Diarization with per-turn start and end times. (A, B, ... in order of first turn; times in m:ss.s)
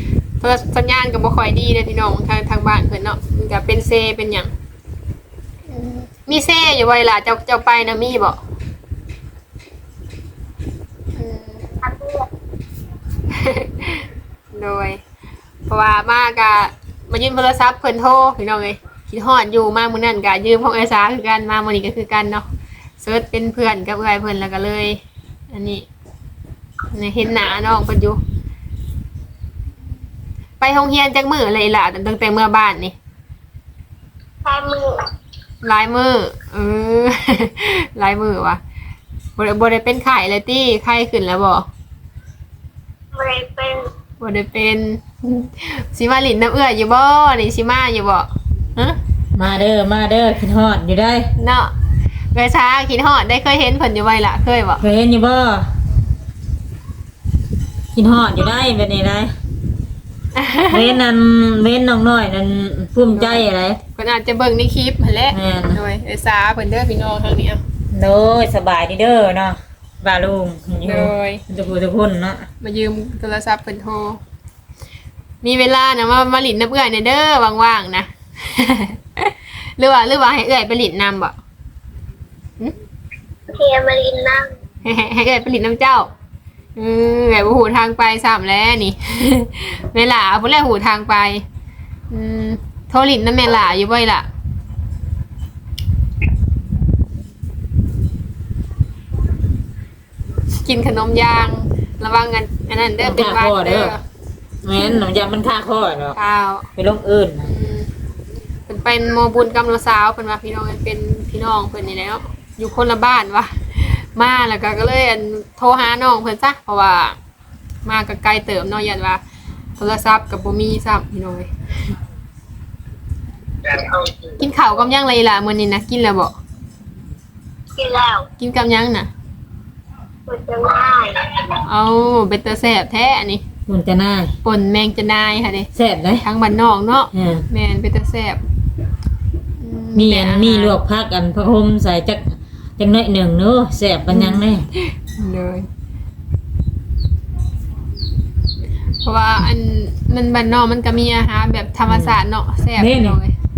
0:00.4-0:04.5 A
0:05.7-0:08.4 A
0:11.2-0:11.6 A
0:11.8-0:12.3 B
0:13.3-0:15.0 A
0:15.7-0:22.4 A
0:23.0-0:25.0 A
0:25.5-0:25.9 A
0:26.9-0:28.2 A
0:30.6-0:33.0 A
0:34.4-0:35.0 B
0:35.6-0:38.6 A
0:39.4-0:41.7 A
0:43.1-0:43.9 B
0:44.2-0:49.0 A
0:49.4-0:51.3 C
0:51.4-0:51.7 A
0:52.3-0:54.8 A
0:54.8-0:55.7 C
0:57.9-0:59.3 C
1:00.4-1:01.0 A
1:00.7-1:03.8 C
1:03.2-1:03.4 A
1:04.0-1:07.6 A
1:05.3-1:05.8 C
1:07.9-1:12.5 C
1:10.8-1:11.4 A
1:12.6-1:14.2 A
1:15.4-1:21.3 A
1:23.5-1:24.5 B
1:24.8-1:26.1 A
1:26.8-1:31.4 A
1:32.1-1:34.3 A
1:40.6-1:44.0 A
1:43.0-1:44.0 C
1:44.6-1:46.2 C
1:46.2-1:46.7 A
1:46.8-1:47.5 C
1:47.4-1:47.9 A
1:48.7-1:57.2 A
1:57.8-1:59.2 A
1:59.8-2:01.5 A
2:04.4-2:06.3 A
2:07.8-2:08.3 B
2:08.4-2:09.1 A
2:10.3-2:11.5 B
2:11.7-2:13.4 A
2:13.7-2:14.3 C
2:14.4-2:15.7 A
2:15.8-2:16.2 C
2:16.2-2:18.4 A
2:17.1-2:17.4 C
2:19.6-2:20.8 A
2:20.0-2:24.7 C
2:24.1-2:25.7 A
2:29.0-2:33.3 A
2:31.9-2:32.2 C
2:32.8-2:33.2 C